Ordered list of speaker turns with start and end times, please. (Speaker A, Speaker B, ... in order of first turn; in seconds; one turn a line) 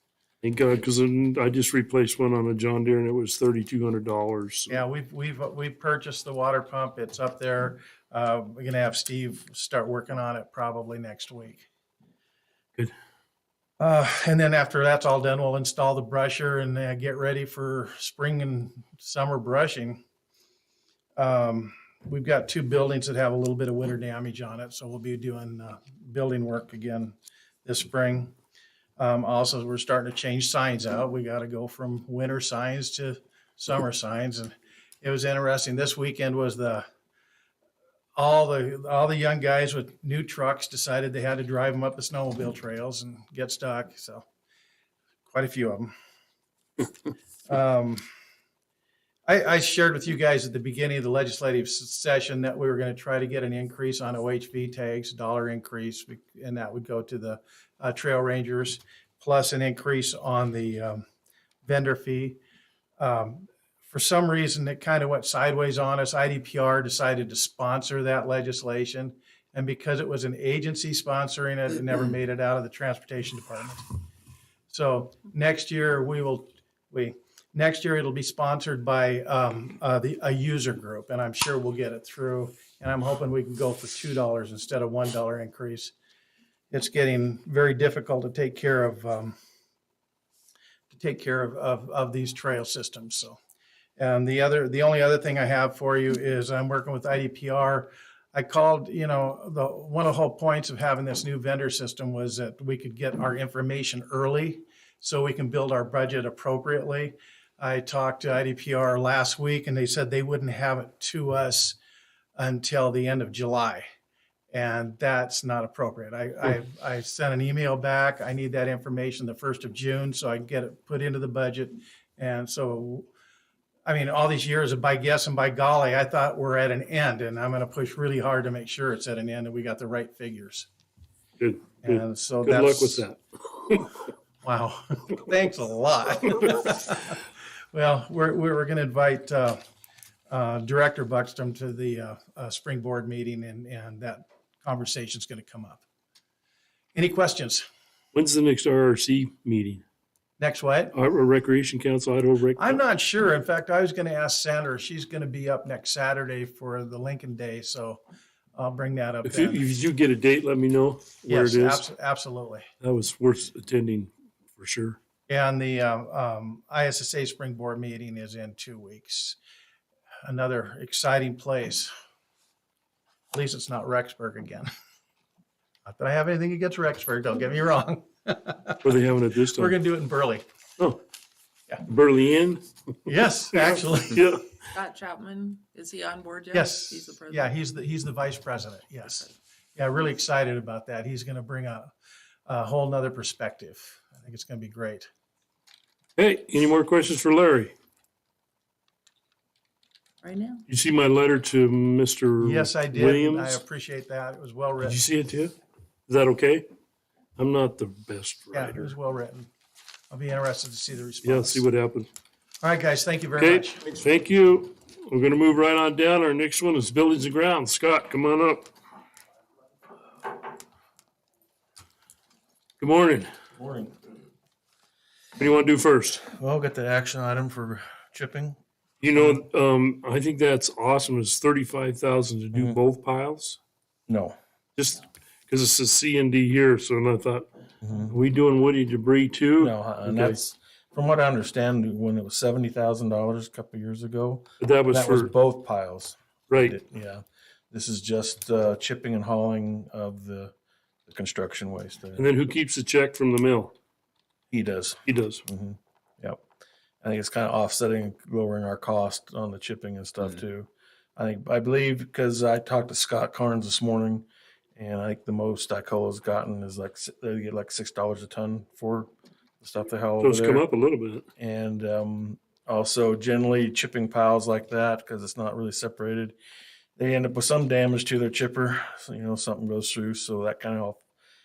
Speaker A: 0.4-4.8
Speaker B: 4.7-11.7
Speaker B: 13.8-20.0
Speaker B: 21.2-28.3
Speaker B: 29.0-36.9
Speaker B: 38.2-44.2
Speaker B: 45.3-45.9
Speaker B: 47.5-48.0
Speaker B: 49.3-61.0
Speaker B: 61.6-62.4
Speaker B: 63.0-73.8
Speaker B: 74.7-85.9
Speaker B: 86.7-89.3
Speaker B: 90.9-93.4
Speaker B: 94.0-111.8
Speaker B: 112.4-113.8
Speaker B: 114.5-123.1
Speaker B: 123.9-130.7
Speaker A: 131.4-133.9
Speaker B: 131.8-133.1
Speaker B: 134.4-137.2
Speaker B: 137.7-139.6
Speaker B: 140.3-145.8
Speaker B: 146.9-147.7
Speaker A: 148.1-149.8
Speaker B: 150.4-150.9
Speaker A: 150.9-152.8
Speaker B: 152.6-158.0
Speaker B: 158.6-159.7
Speaker A: 159.2-161.9
Speaker B: 161.3-162.7
Speaker A: 162.8-165.0
Speaker B: 165.3-169.4
Speaker B: 170.2-171.9
Speaker B: 173.3-174.7
Speaker B: 175.8-178.9
Speaker A: 178.8-179.8
Speaker B: 179.5-180.4
Speaker A: 181.8-183.1
Speaker B: 183.1-184.3
Speaker A: 183.7-184.6
Speaker C: 184.7-187.5
Speaker B: 186.5-191.9
Speaker B: 192.5-195.1
Speaker A: 196.2-197.7
Speaker C: 200.2-200.6
Speaker A: 200.7-203.6
Speaker B: 202.4-205.0
Speaker A: 204.8-205.5
Speaker A: 206.1-206.7
Speaker A: 207.4-208.9
Speaker B: 208.5-209.5
Speaker B: 210.1-211.7
Speaker A: 211.2-212.1
Speaker B: 212.6-213.8
Speaker A: 213.4-218.7
Speaker A: 222.8-223.3
Speaker D: 223.6-223.9
Speaker A: 225.4-226.2
Speaker D: 226.3-228.6
Speaker A: 229.0-233.6
Speaker D: 232.5-232.8
Speaker D: 234.1-234.4
Speaker A: 234.8-237.5
Speaker D: 237.8-238.1
Speaker A: 238.0-240.4
Speaker D: 239.6-250.5
Speaker A: 244.6-245.3
Speaker A: 246.5-246.8
Speaker D: 251.1-252.3
Speaker A: 252.2-253.7
Speaker D: 254.5-256.4
Speaker A: 255.1-255.4
Speaker D: 257.0-270.6
Speaker A: 270.2-271.3
Speaker D: 271.4-276.4
Speaker D: 277.0-281.0